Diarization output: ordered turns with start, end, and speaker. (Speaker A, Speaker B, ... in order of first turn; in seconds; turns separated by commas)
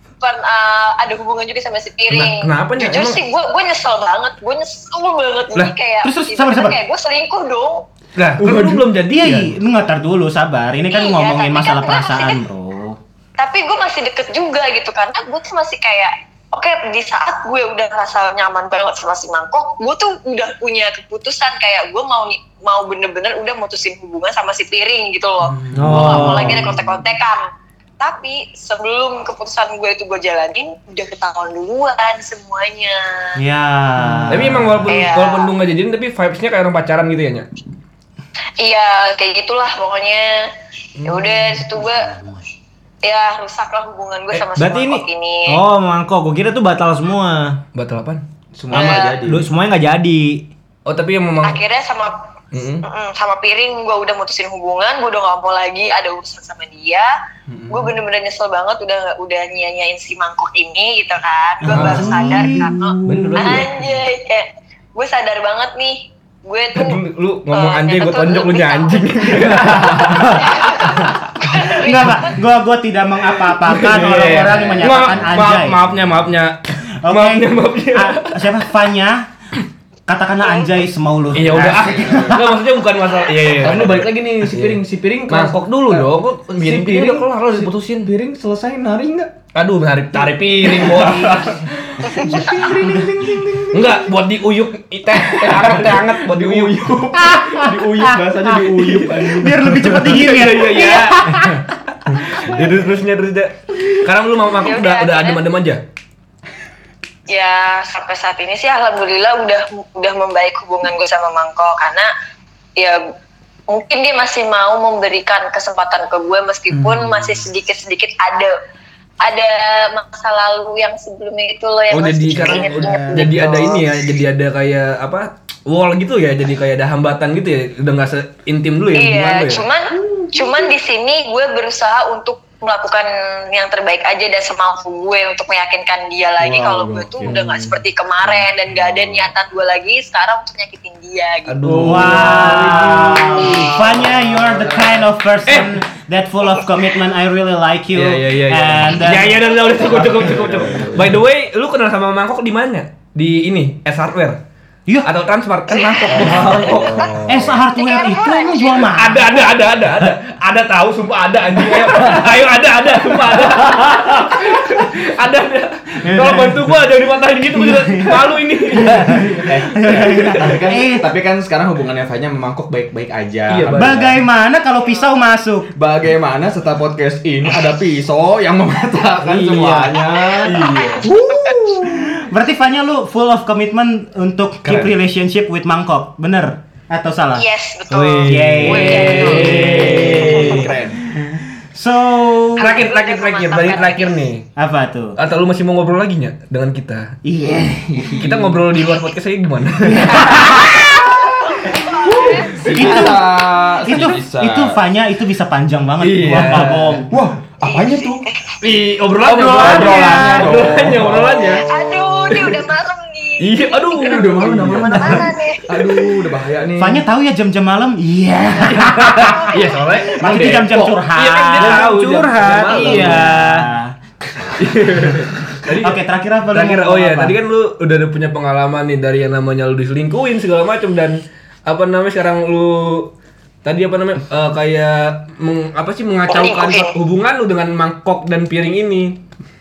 Speaker A: 0.2-7.8, Speaker B: 2.1-3.2, Speaker C: 6.0-6.8, Speaker B: 8.2-9.5, Speaker C: 9.0-13.0, Speaker A: 10.9-12.4, Speaker A: 13.4-27.5, Speaker D: 25.5-26.6, Speaker E: 25.7-26.7, Speaker C: 25.8-26.2, Speaker A: 28.0-33.4, Speaker C: 33.4-35.0, Speaker B: 34.3-37.5, Speaker A: 34.9-35.5, Speaker A: 38.6-40.5, Speaker B: 41.0-41.3, Speaker A: 41.0-42.1, Speaker C: 41.8-42.4, Speaker A: 43.0-45.6, Speaker E: 44.5-47.6, Speaker B: 47.7-48.2, Speaker D: 48.5-49.5, Speaker A: 48.7-49.2, Speaker E: 48.7-50.5, Speaker B: 50.9-51.6, Speaker A: 51.4-52.1, Speaker B: 52.5-52.8, Speaker A: 52.8-57.1, Speaker D: 57.5-57.9, Speaker A: 57.7-67.0, Speaker C: 61.6-62.7, Speaker B: 61.7-62.2, Speaker D: 61.7-62.7, Speaker B: 63.0-64.0, Speaker B: 66.7-70.7, Speaker A: 67.5-72.3, Speaker C: 71.5-75.8, Speaker B: 73.6-78.5, Speaker C: 77.0-79.3, Speaker C: 80.1-82.5, Speaker B: 81.3-88.1, Speaker D: 81.9-82.3, Speaker D: 83.6-89.3, Speaker B: 89.5-91.6, Speaker D: 90.6-94.2, Speaker C: 92.4-93.0, Speaker B: 93.7-96.8, Speaker D: 95.1-99.6, Speaker C: 97.2-98.4, Speaker B: 98.7-105.8, Speaker C: 99.3-101.6, Speaker A: 104.6-105.4, Speaker A: 107.3-112.1, Speaker A: 113.7-118.5, Speaker D: 116.7-117.2, Speaker A: 119.2-123.8, Speaker B: 121.9-129.6, Speaker D: 122.8-123.2, Speaker A: 128.9-141.6, Speaker D: 129.9-130.6, Speaker D: 136.4-137.4, Speaker B: 137.2-137.7, Speaker D: 138.7-139.3, Speaker B: 141.5-143.2, Speaker D: 141.6-145.1, Speaker C: 141.7-150.2, Speaker B: 145.4-145.7, Speaker D: 148.0-151.2, Speaker B: 149.0-154.4, Speaker B: 155.0-157.1, Speaker C: 155.7-156.7, Speaker D: 156.1-157.6, Speaker C: 157.2-159.5, Speaker A: 157.7-158.9, Speaker B: 158.8-170.3, Speaker C: 166.1-166.7, Speaker C: 167.5-171.1, Speaker D: 169.4-174.2, Speaker B: 173.5-174.1, Speaker C: 173.8-175.7, Speaker D: 175.7-181.7, Speaker E: 179.2-180.0, Speaker B: 180.4-181.1, Speaker A: 180.6-181.7, Speaker C: 181.4-187.4, Speaker D: 184.6-184.9, Speaker A: 187.3-189.6, Speaker E: 187.9-190.4, Speaker C: 188.2-192.7, Speaker D: 188.8-191.0, Speaker B: 188.8-190.8, Speaker B: 192.6-194.5, Speaker A: 192.6-194.1, Speaker C: 194.6-195.2, Speaker B: 195.2-197.1, Speaker C: 197.2-198.5, Speaker D: 197.9-198.4, Speaker B: 198.2-200.6, Speaker C: 199.8-201.0, Speaker A: 200.8-203.0, Speaker D: 202.1-204.7, Speaker C: 202.6-207.1, Speaker B: 206.0-207.0, Speaker D: 206.2-208.2, Speaker A: 207.7-208.5, Speaker B: 208.6-211.6, Speaker E: 209.3-210.5, Speaker D: 209.3-211.6, Speaker A: 211.6-215.7, Speaker B: 212.3-212.6, Speaker B: 213.4-214.9, Speaker D: 213.9-217.1, Speaker C: 216.8-227.3, Speaker B: 218.6-223.3, Speaker A: 219.2-220.2, Speaker E: 220.6-221.0, Speaker E: 221.6-223.7, Speaker B: 224.6-233.1, Speaker B: 233.6-239.2, Speaker A: 236.3-236.9